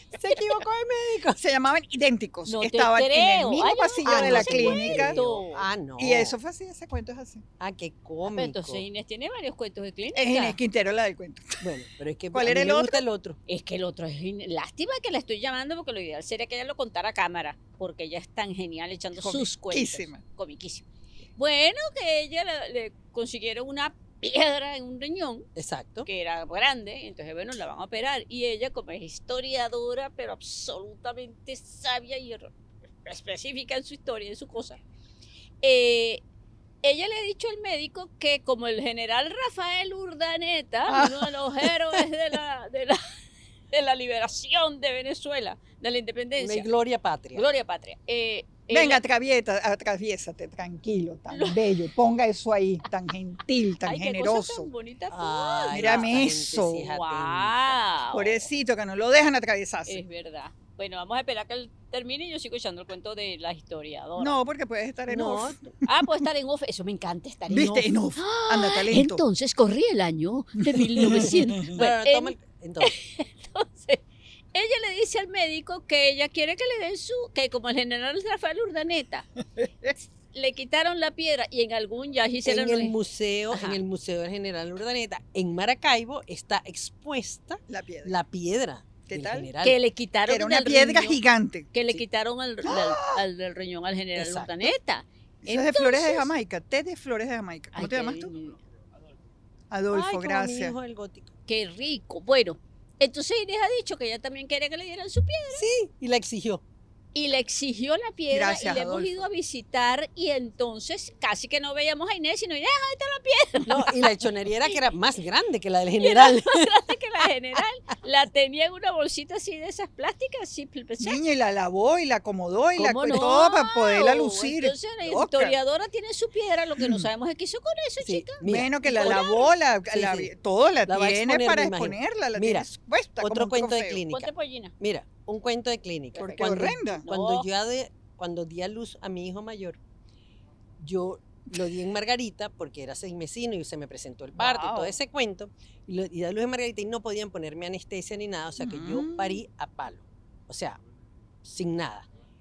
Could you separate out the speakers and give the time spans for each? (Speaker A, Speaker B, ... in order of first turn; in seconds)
Speaker A: 0.1-1.4, 4.0-6.3, 7.6-8.8, 11.6-13.4, 25.6-26.1, 46.4-47.5, 55.1-57.8, 65.1-65.7, 71.7-73.0, 82.4-89.8, 94.2-94.7, 99.9-101.3, 105.5-106.6, 113.6-116.7, 128.0-129.2, 129.9-130.3, 130.8-132.7, 133.2-139.8, 140.8-150.8, 151.4-152.1
Speaker B: 1.4-5.2, 6.0-7.4, 10.1-11.6, 12.3-13.0, 19.2-20.2, 40.9-41.7, 48.7-54.7, 55.7-56.9, 58.1-60.0, 64.2-66.1, 67.5-69.2, 70.6-71.8, 79.6-79.9, 87.7-88.2, 89.1-89.5, 90.3-91.7, 92.6-93.2, 95.4-98.3, 99.7-100.8, 108.3-109.2, 121.0-125.5, 126.8-127.1, 128.4-134.0, 136.2-137.0, 144.3-145.0, 148.6-149.4
Speaker C: 2.5-5.6, 8.2-10.6, 13.5-20.9, 21.4-25.5, 26.1-32.5, 33.0-34.8, 35.6-36.2, 36.8-43.0, 43.7-46.7, 47.3-49.0, 51.3-51.6, 53.8-58.4, 59.9-64.3, 65.9-74.0, 74.5-79.3, 80.3-82.9, 83.5-83.8, 89.6-91.2, 91.7-96.3, 97.7-98.6, 101.5-105.6, 107.1-114.1, 116.0-121.2, 122.8-129.5, 134.1-134.7, 136.2-137.5